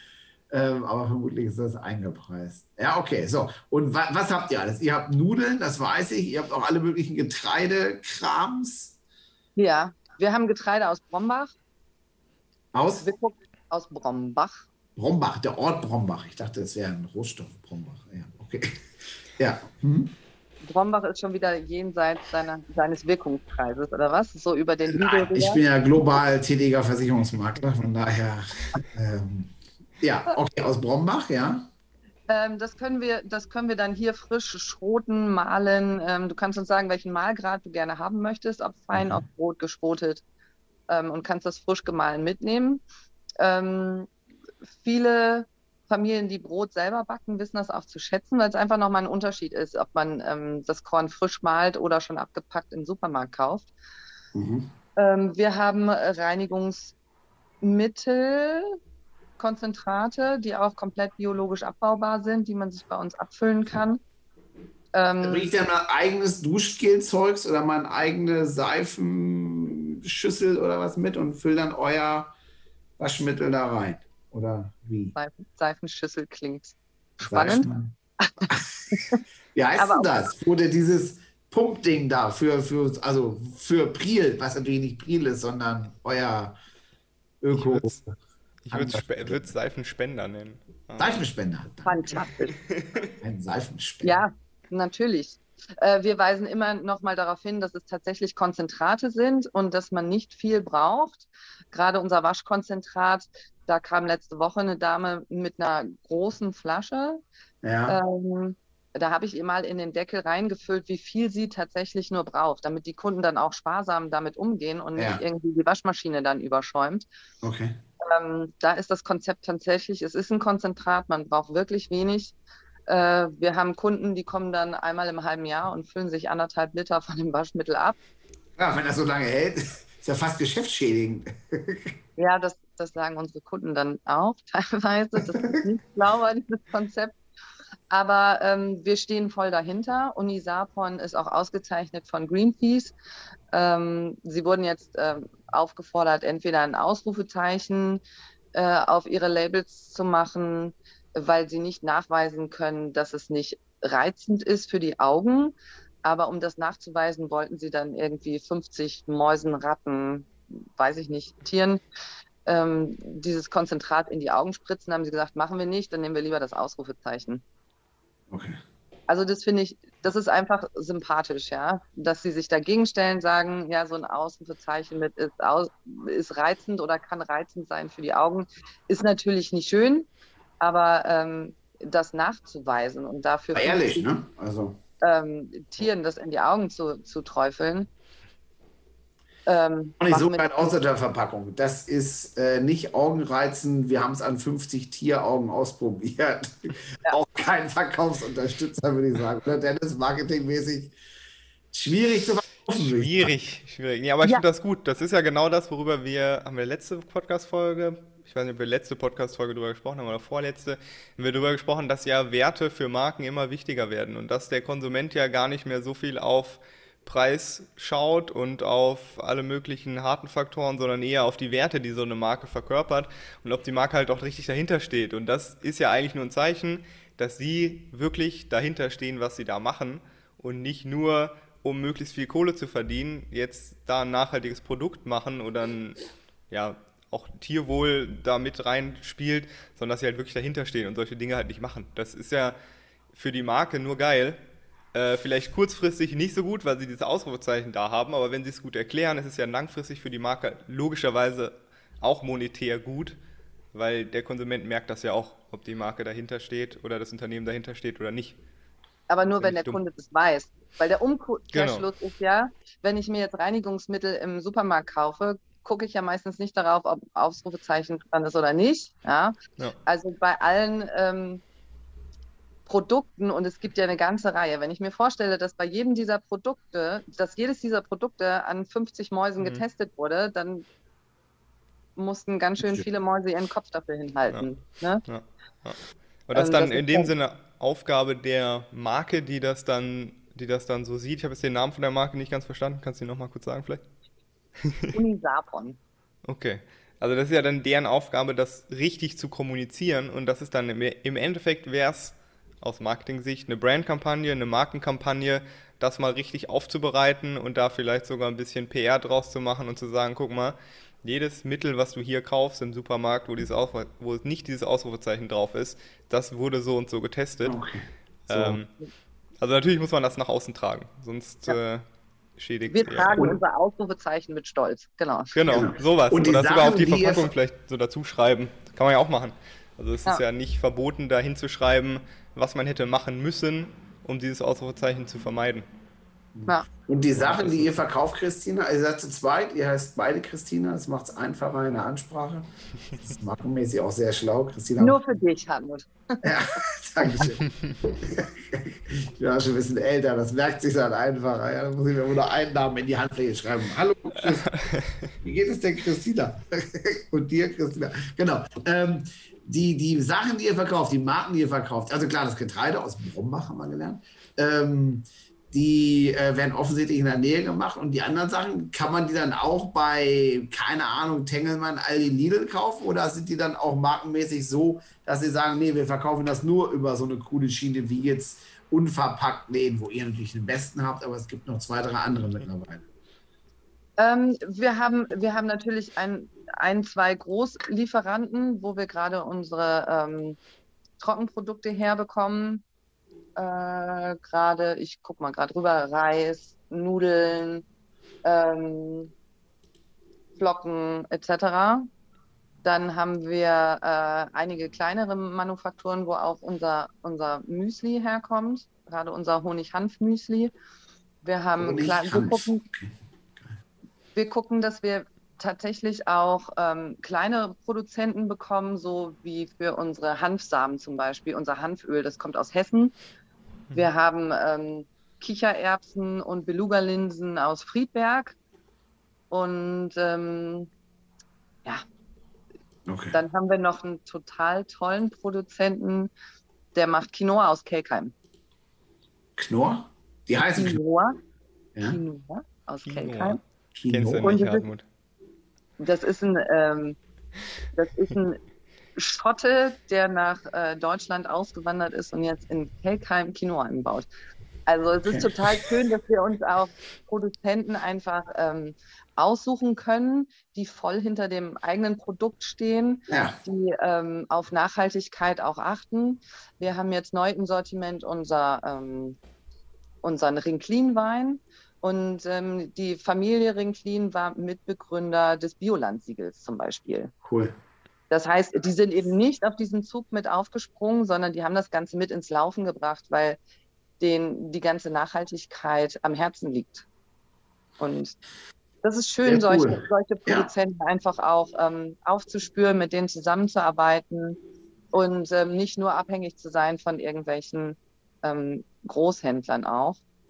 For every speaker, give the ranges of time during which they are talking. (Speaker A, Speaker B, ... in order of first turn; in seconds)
Speaker A: 0.5-8.9, 12.7-13.1, 15.0-18.8, 19.4-20.1, 24.9-31.7, 38.9-39.2, 54.3-54.7, 65.2-72.3, 73.0-75.2, 77.2-77.9, 78.5-79.0, 79.5-86.5, 87.4-88.1, 88.7-89.5, 91.0-92.3, 93.2-94.2, 107.6-108.0, 115.0-115.2, 117.4-117.8, 128.6-131.9, 135.2-135.6, 168.3-168.6, 183.5-184.8, 190.0-201.0, 201.7-203.3, 317.4-318.6, 325.5-327.3, 336.4-345.2, 346.2-354.5, 355.2-382.9, 411.6-413.6, 432.9-433.2, 439.4-440.8, 443.8-444.3, 455.1-455.3, 463.1-463.4, 477.2-477.5, 489.2-490.5
Speaker B: 9.6-11.5, 13.0-14.7, 20.6-25.6, 32.3-40.2, 40.9-42.8, 43.4-44.1, 44.8-53.7, 55.0-56.9, 57.6-58.8, 59.4-64.0, 64.9-65.5, 75.2-77.7, 78.2-79.2, 79.8-80.1, 91.8-92.6, 94.0-107.2, 107.9-117.1, 118.0-122.3, 122.9-128.0, 132.2-137.2, 137.9-142.9, 143.5-148.0, 148.5-161.8, 162.5-167.4, 169.1-180.1, 180.6-184.1, 185.0-187.9, 189.5-190.7, 259.1-271.4, 272.7-280.6, 282.0-285.0, 286.4-287.1, 294.9-295.8, 322.7-325.4, 344.8-346.4, 384.0-390.4, 391.0-392.6, 393.4-397.6, 398.2-399.1, 400.4-401.9, 402.6-410.5, 411.2-412.6, 414.1-422.9, 423.7-428.4, 429.3-430.7, 433.1-436.1, 436.7-438.1, 440.6-441.2, 441.8-443.4, 444.2-444.6, 445.8-447.0, 447.7-448.4, 449.0-454.1, 454.7-469.2, 470.0-477.1, 478.1-483.4, 484.0-486.9, 487.8-488.2, 488.8-494.4, 494.9-500.0
Speaker C: 87.5-87.9, 88.7-91.2, 92.7-93.1, 202.8-242.6, 243.1-244.4, 244.9-253.2, 253.7-258.4, 259.4-259.8, 261.5-261.9, 279.4-279.6, 285.1-293.8, 294.6-294.9, 296.3-317.6, 318.3-318.7, 319.4-321.9, 322.4-323.3, 325.4-335.7, 337.1-337.7, 354.2-355.1, 442.9-444.9